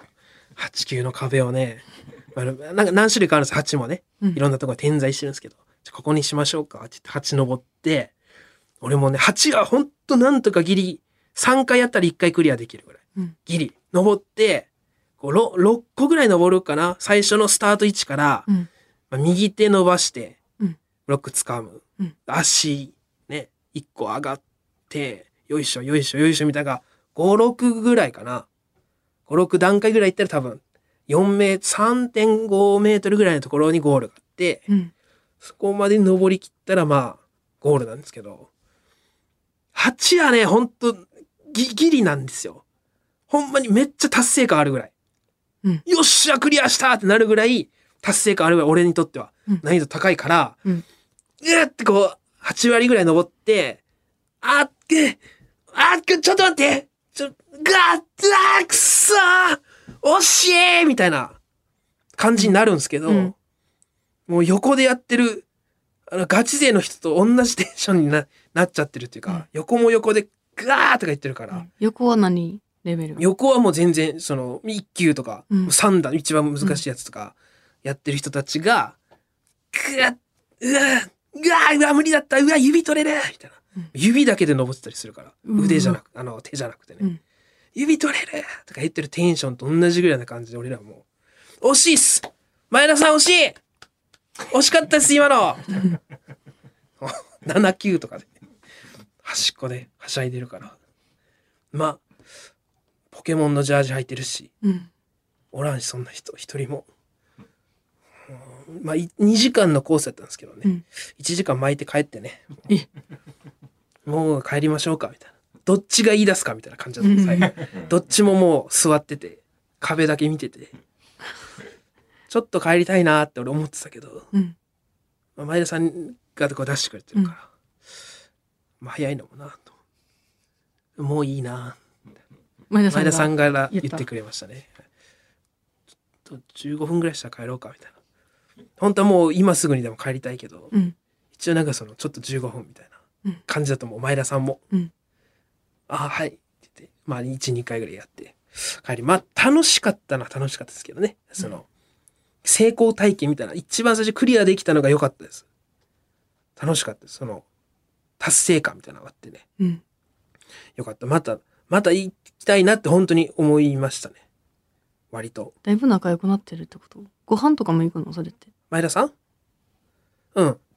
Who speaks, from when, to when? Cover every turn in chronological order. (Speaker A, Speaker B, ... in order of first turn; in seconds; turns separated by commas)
Speaker A: 0.6-8.1, Speaker A: 8.8-14.7, Speaker A: 15.2-18.5, Speaker A: 19.1-20.4, Speaker A: 21.1-28.5, Speaker A: 29.3-34.7, Speaker A: 35.4-38.5, Speaker A: 39.7-42.6, Speaker A: 43.3-44.9, Speaker A: 45.9-50.6, Speaker A: 51.4-53.8, Speaker A: 54.4-61.4, Speaker A: 62.2-63.3, Speaker B: 63.1-63.3, Speaker A: 64.3-65.5, Speaker A: 66.1-71.7, Speaker B: 71.5-73.2, Speaker A: 73.2-79.0, Speaker A: 79.7-87.0, Speaker B: 85.5-86.0, Speaker A: 87.8-91.0, Speaker A: 91.6-93.6, Speaker A: 94.5-95.9, Speaker A: 97.0-98.3, Speaker A: 99.2-100.8, Speaker A: 101.7-102.0, Speaker A: 103.1-104.5, Speaker B: 104.6-104.9, Speaker A: 105.5-106.9, Speaker A: 108.3-112.5, Speaker A: 114.0-120.7, Speaker B: 117.0-117.6, Speaker A: 122.3-124.3, Speaker A: 125.4-127.5, Speaker A: 128.8-129.7, Speaker A: 131.0-131.8, Speaker B: 132.7-134.1, Speaker A: 132.9-134.8, Speaker A: 136.3-137.9, Speaker A: 138.8-140.7, Speaker A: 141.3-143.0, Speaker A: 143.5-144.6, Speaker A: 145.9-151.7, Speaker A: 152.4-155.5, Speaker A: 156.6-157.4, Speaker A: 158.2-159.4, Speaker A: 160.8-164.2, Speaker A: 165.1-165.5, Speaker B: 165.6-168.5, Speaker A: 168.7-169.1, Speaker A: 170.3-170.6